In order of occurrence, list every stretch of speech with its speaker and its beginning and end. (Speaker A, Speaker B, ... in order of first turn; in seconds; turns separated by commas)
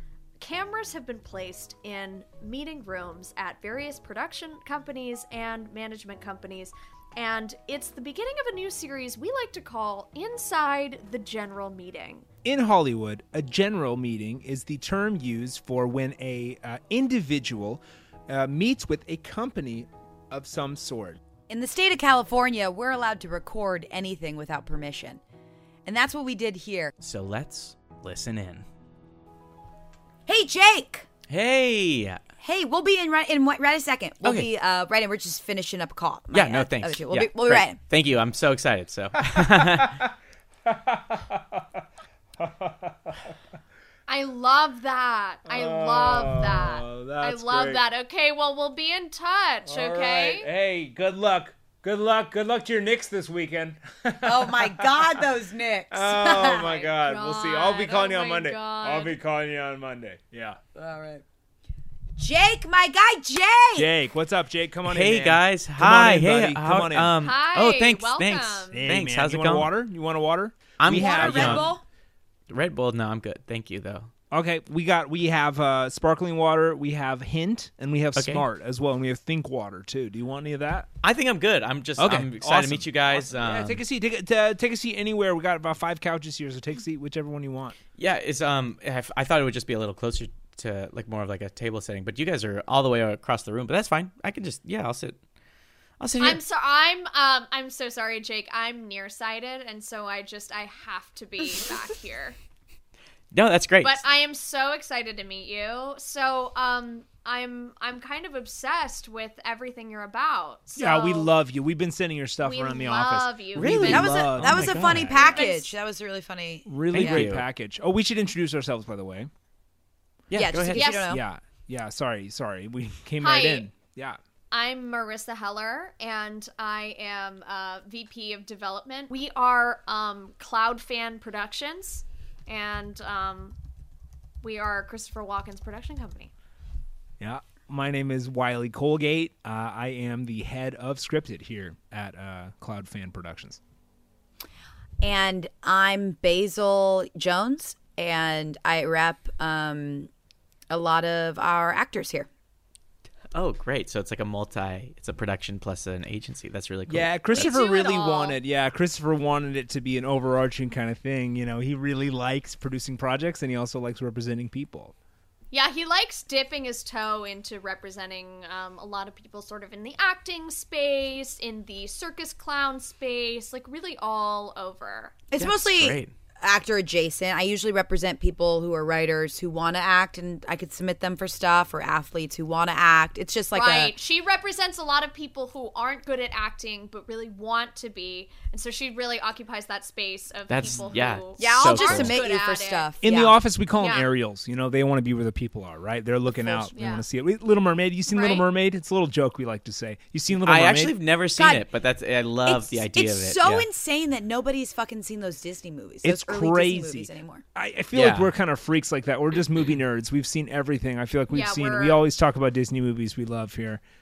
Speaker A: 0.4-12.2, Speaker B: 12.4-21.2, Speaker C: 21.5-25.2, Speaker C: 25.9-26.9, Speaker D: 27.0-28.6, Speaker C: 30.3-31.1, Speaker D: 31.3-32.2, Speaker C: 32.4-37.8, Speaker D: 34.2-34.5, Speaker D: 36.3-40.0, Speaker B: 39.7-40.1, Speaker B: 40.7-41.6, Speaker B: 42.4-43.1, Speaker A: 44.1-50.5, Speaker B: 45.5-47.8, Speaker B: 49.6-55.2, Speaker C: 54.2-56.8, Speaker B: 55.9-60.6, Speaker A: 56.6-59.1, Speaker C: 60.7-61.2, Speaker C: 62.2-63.9, Speaker B: 63.8-67.1, Speaker D: 64.8-69.7, Speaker A: 67.2-68.9, Speaker B: 68.7-71.8, Speaker D: 70.8-71.7, Speaker C: 70.9-71.8, Speaker D: 72.5-74.1, Speaker B: 74.3-80.9, Speaker D: 78.2-78.5, Speaker D: 81.0-83.8, Speaker B: 82.0-87.8, Speaker D: 88.0-95.2, Speaker D: 96.0-96.4, Speaker A: 96.2-102.3, Speaker D: 103.3-104.0, Speaker A: 103.8-111.3, Speaker B: 110.8-115.5, Speaker A: 112.4-114.1, Speaker D: 113.6-115.2, Speaker C: 113.9-117.3, Speaker A: 115.1-115.8, Speaker B: 116.6-119.3, Speaker D: 116.9-117.5, Speaker D: 120.3-120.9, Speaker C: 120.3-121.2, Speaker A: 120.7-121.2, Speaker B: 121.1-124.2, Speaker A: 123.2-123.7, Speaker A: 124.5-133.6, Speaker A: 134.4-136.3, Speaker B: 137.2-143.6, Speaker C: 145.0-150.1, Speaker C: 150.7-152.3, Speaker D: 153.3-157.5, Speaker B: 156.9-164.9, Speaker A: 157.3-158.4, Speaker A: 165.5-175.2, Speaker C: 175.3-184.0, Speaker D: 175.4-176.1, Speaker A: 183.5-192.9, Speaker D: 190.5-192.2, Speaker C: 191.4-193.4, Speaker B: 193.0-200.9, Speaker A: 193.8-194.1, Speaker C: 196.3-196.7, Speaker A: 196.7-197.0, Speaker A: 198.1-198.5, Speaker D: 200.3-203.7, Speaker C: 201.3-201.7, Speaker C: 202.4-207.4, Speaker B: 206.0-213.8, Speaker D: 207.9-208.3, Speaker A: 211.3-212.0